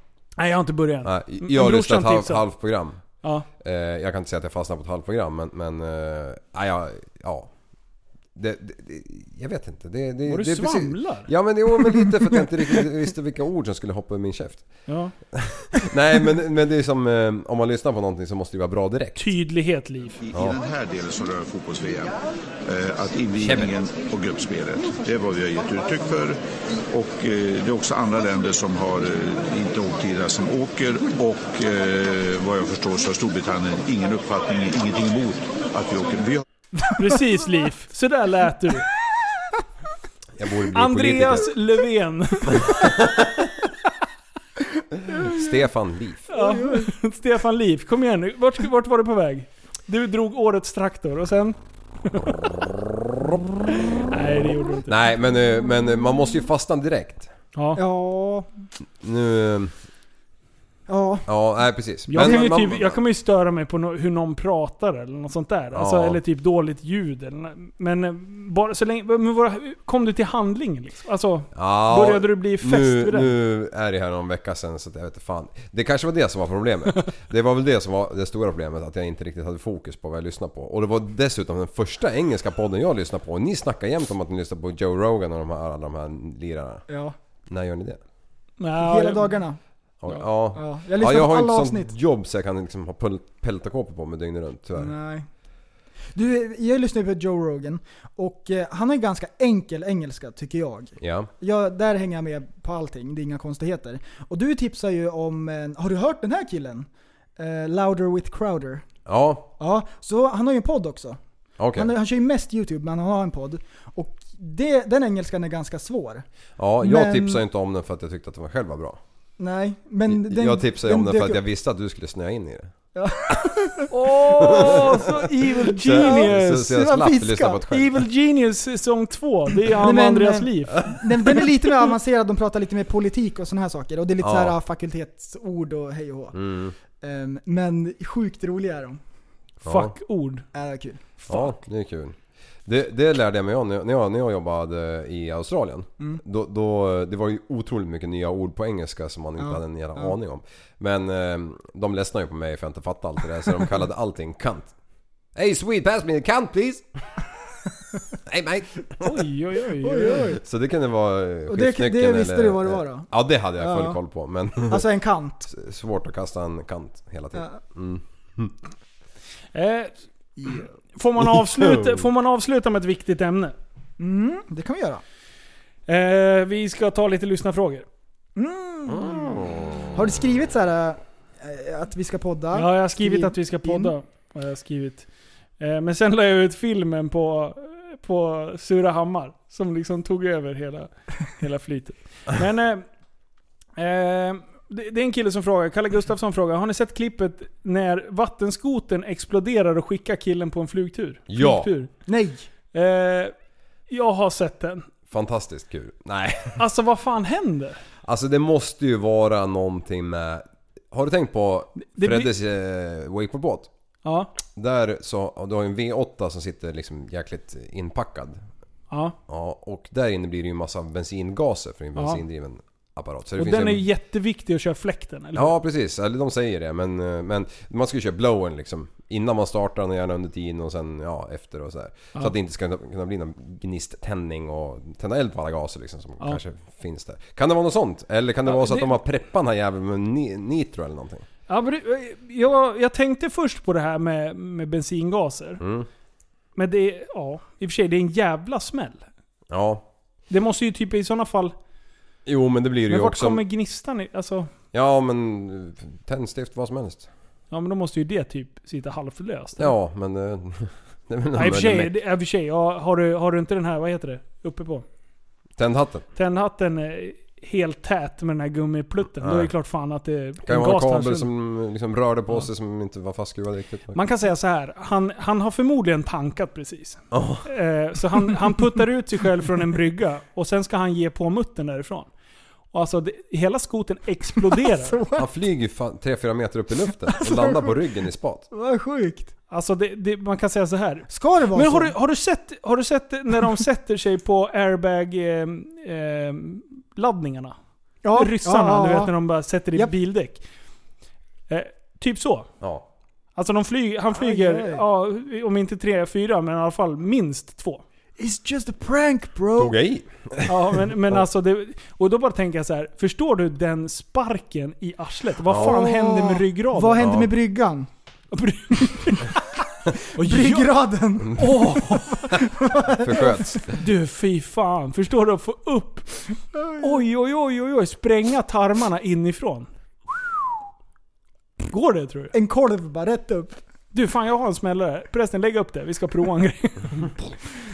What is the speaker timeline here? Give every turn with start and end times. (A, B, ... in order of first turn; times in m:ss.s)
0:00.4-0:02.4 A
0:01.0-0:03.0 B
0:03.2-0:03.5 A
0:03.6-0:07.5 B
0:08.4-0:14.8 B
0:10.3-0:11.3 A
0:12.3-0:12.8 A
0:14.9-0:15.1 A
0:15.3-0:19.2 B
0:19.2-0:20.2 A
0:20.2-0:26.4 C
0:23.4-0:23.7 B
0:26.9-0:36.4 C
0:36.9-0:38.9 A
0:40.4-0:41.5 B
0:40.7-0:42.9 A
0:42.6-0:43.1 B
0:45.1-0:45.6 D
0:45.3-0:46.3 B
0:46.3-0:52.3 A
0:46.3-0:46.9 D
0:53.7-0:54.9 A
0:54.9-0:57.3 B
0:57.5-0:57.8 A
0:57.8-0:58.5 D
0:59.0-0:59.7 B
1:00.9-1:01.3 D
1:01.3-1:03.0 B
1:02.1-1:13.3 A
1:02.1-1:02.5 D
1:05.7-1:06.2 B
1:11.5-1:26.8 B
1:26.9-1:27.1 D
1:27.5-1:28.0 B
1:28.6-1:29.4 A
1:28.8-1:29.6 D
1:30.0-1:34.9 B
1:30.5-1:31.9 D
1:34.8-1:35.3 D
1:36.1-1:48.8 D
1:41.0-1:41.3 B
1:49.0-1:49.5 B
1:49.6-1:51.2 D
1:51.6-1:51.9 B
1:51.7-1:56.2 D
1:56.6-1:59.0 B
1:56.8-1:57.4 D
1:59.4-2:01.4 D
2:00.1-2:02.7 B
2:02.9-2:03.9 D
2:03.9-2:06.7 A
2:04.3-2:05.1 B
2:04.4-2:04.8 D
2:05.6-2:08.0 B
2:05.6-2:07.6 D
2:07.7-2:11.0 A
2:09.7-2:16.4 D
2:14.2-2:14.6 B
2:16.3-2:16.7 B
2:16.9-2:19.0 D
2:19.6-2:19.9 B
2:19.6-2:20.5 A
2:20.5-2:21.1 D
2:21.3-2:34.7 B
2:29.4-2:30.1 D
2:35.3-2:36.8 B
2:38.3-2:39.0 B
2:39.0-2:40.3 A
2:39.8-2:40.4 D
2:40.4-2:44.8 B
2:41.5-2:44.0 D
2:44.7-2:45.5 D
2:45.5-2:48.5 B
2:49.5-2:49.9 A
2:50.4-2:50.6 D
2:51.0-2:53.5 A
2:51.4-2:52.0 B
2:54.0-2:55.0 D
2:55.9-2:57.8 A
2:58.4-2:59.4 D
2:58.9-2:59.8 B
2:59.9-3:03.9 D
3:02.5-3:05.1 A
3:05.6-3:12.8 A
3:13.8-3:21.9 A
3:21.3-3:21.7 B
3:22.1-3:22.4 D
3:22.7-3:23.3 A
3:23.9-3:24.8 A
3:25.1-3:26.6 B
3:26.6-3:27.8 A
3:28.0-3:33.7 B
3:31.8-3:32.3 A
3:34.0-3:34.3 A
3:34.5-3:38.4 B
3:38.9-3:39.2 A
3:39.3-3:43.8 B
3:42.0-3:42.2 A
3:43.4-3:45.5 A
3:45.3-4:01.2 B
3:58.4-3:59.0 A
4:01.5-4:05.6 A
4:05.6-4:05.9 B
4:06.6-4:09.0 A
4:09.5-4:09.8 B
4:10.3-4:11.5 A
4:12.2-4:13.4 B
4:12.9-4:14.5 A
4:14.7-4:17.1 B
4:17.5-4:19.7 A
4:19.6-4:21.9 B
4:21.3-4:24.8 A
4:25.6-4:26.0 B
4:26.1-4:31.3 A
4:29.2-4:29.5 B
4:30.4-4:34.0 B
4:33.9-4:42.1 A
4:37.1-4:37.5 B
4:42.7-4:45.0 A
4:44.5-4:45.3 D
4:45.2-4:48.4 B
4:47.0-4:47.8 D
4:48.5-4:49.3 D
4:49.5-4:57.5 A
4:51.1-4:51.9 D
4:58.0-4:59.1 D
4:58.1-5:00.4 A
5:01.5-5:02.5 A
5:03.4-5:07.8 A
5:04.1-5:04.8 D
5:08.2-5:09.8 D
5:09.6-5:11.2 B
5:10.5-5:17.1 A
5:15.5-5:15.8 B
5:15.5-5:17.9 D
5:17.0-5:17.3 B
5:18.3-5:19.4 A
5:20.1-5:20.7 A
5:20.2-5:23.6 D
5:21.3-5:22.3 A
5:23.0-5:23.8 B
5:23.7-5:29.7 A
5:26.5-5:27.0 D
5:31.7-5:32.3 A
5:32.3-5:33.6 D
5:33.9-5:37.3 A